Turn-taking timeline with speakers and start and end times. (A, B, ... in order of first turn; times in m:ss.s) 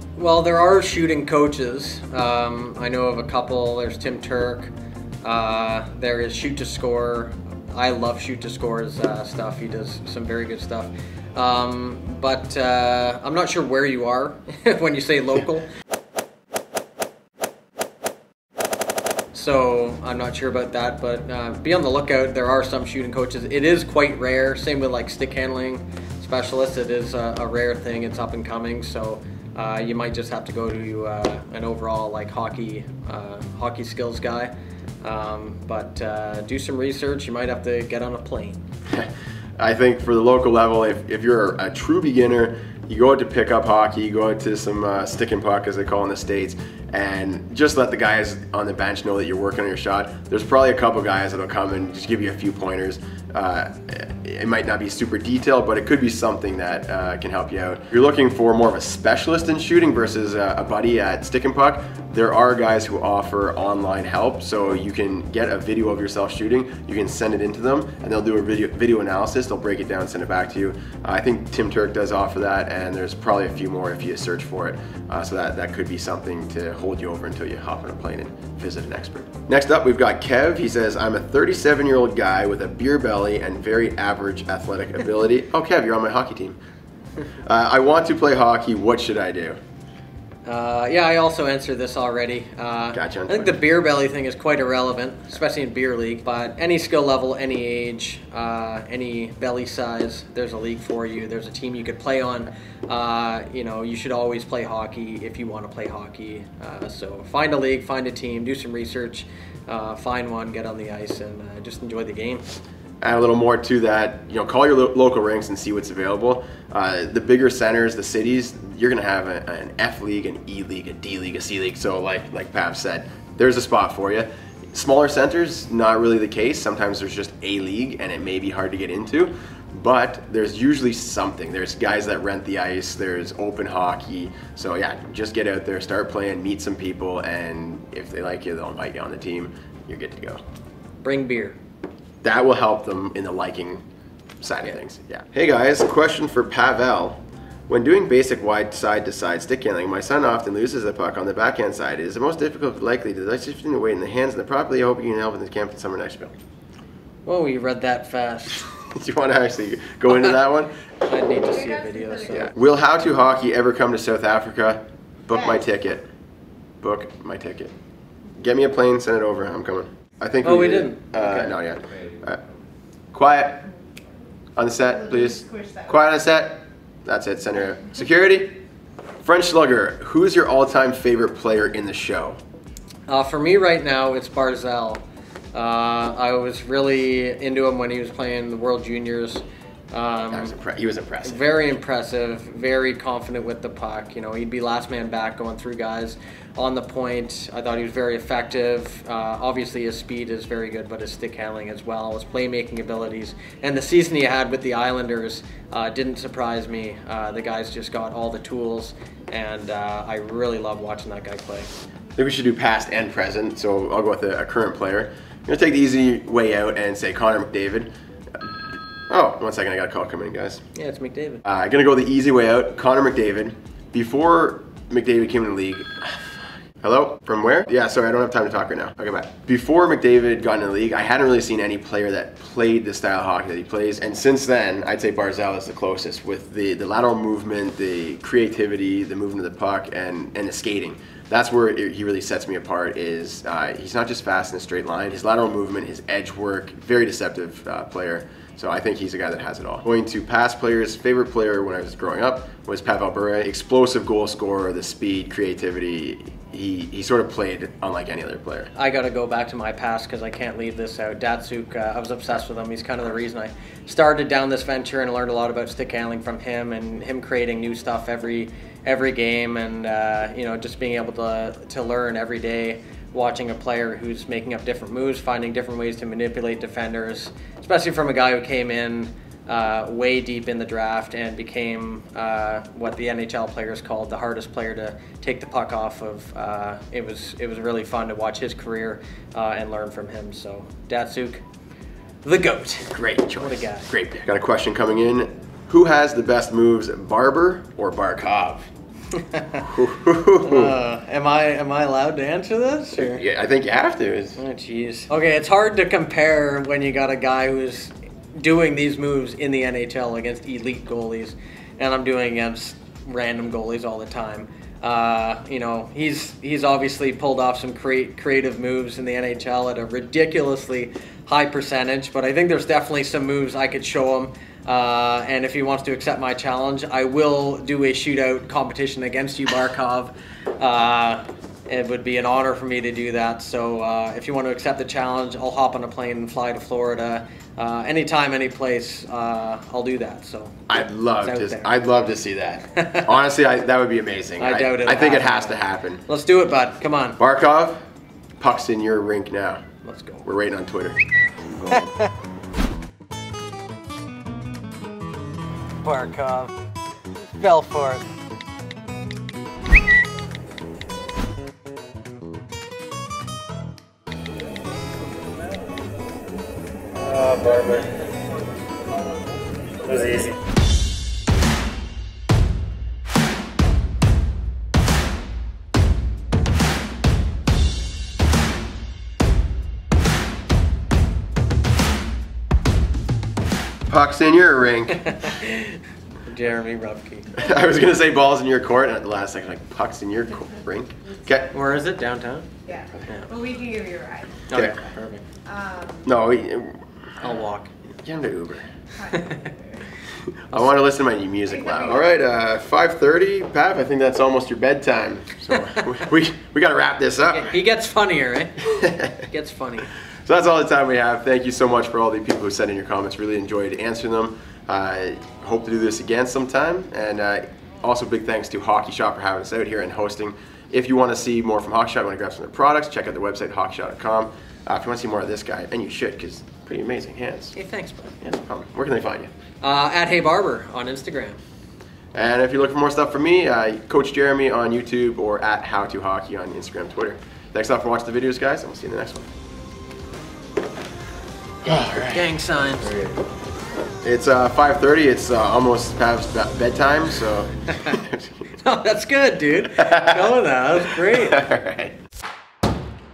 0:00.2-0:15.7 A
0:19.3-0:38.6 A
0:38.9-1:26.6 B
1:27.4-1:29.6 B
1:30.4-1:52.5 A
1:32.9-1:33.6 B
1:53.0-2:20.4 B
2:21.0-2:21.6 A
2:22.2-2:23.8 B
2:24.4-2:36.3 B
2:37.2-2:38.6 A
2:38.7-2:40.7 B
2:40.1-2:40.4 A
2:41.0-2:42.5 A
2:41.3-2:42.4 C
2:42.3-2:46.1 B
2:46.8-2:47.7 B
2:48.4-2:52.4 B
2:50.4-2:51.5 A
2:53.1-2:53.7 B
2:54.6-2:58.5 B
2:55.4-2:55.8 C
2:59.2-3:02.4 B
3:03.1-3:05.0 A
3:05.5-3:10.5 A
3:10.3-3:11.8 B
3:11.2-3:31.7 A
3:32.2-3:38.5 B
3:39.1-3:40.6 B
3:40.7-3:41.4 A
3:41.4-4:18.7 B
4:18.7-4:51.4 A
4:52.2-4:53.9 A
4:52.9-4:58.7 B
4:59.1-4:59.7 A
4:59.6-5:00.8 B
5:00.4-5:03.2 A
5:03.0-5:04.4 B
5:04.4-5:40.6 A
5:40.7-5:46.0 B
5:41.2-5:41.7 A
5:42.8-5:43.1 A
5:44.4-5:47.2 A
5:47.2-5:47.8 B
5:48.4-5:49.6 B
5:49.8-5:50.2 A
5:50.2-5:51.0 B
5:51.7-5:52.1 A
5:55.8-5:56.5 A
5:57.4-5:58.0 A
6:07.1-6:07.9 A
6:23.9-6:25.3 B
6:25.0-6:27.3 A
6:27.3-6:31.5 B
6:31.3-6:31.8 C
6:31.5-6:32.5 A
6:32.6-6:34.5 C
6:34.5-6:35.2 A
6:34.5-6:34.8 B
6:35.4-6:36.0 C
6:36.0-6:36.8 B
6:37.2-6:37.7 A
6:38.0-6:38.7 B
6:38.9-6:39.8 C
6:39.1-6:39.5 A
6:40.2-6:47.5 B
6:47.3-6:48.7 A
6:48.6-6:49.3 B
6:49.2-6:49.9 A
6:50.2-7:07.5 B
7:07.5-7:08.1 A
7:08.2-7:09.3 B
7:09.6-7:11.4 A
7:12.1-7:19.3 B
7:21.6-7:22.2 B
7:22.0-7:23.0 A
7:24.0-7:28.6 B
7:28.6-7:31.4 A
7:29.8-7:30.3 B
7:31.0-7:32.0 B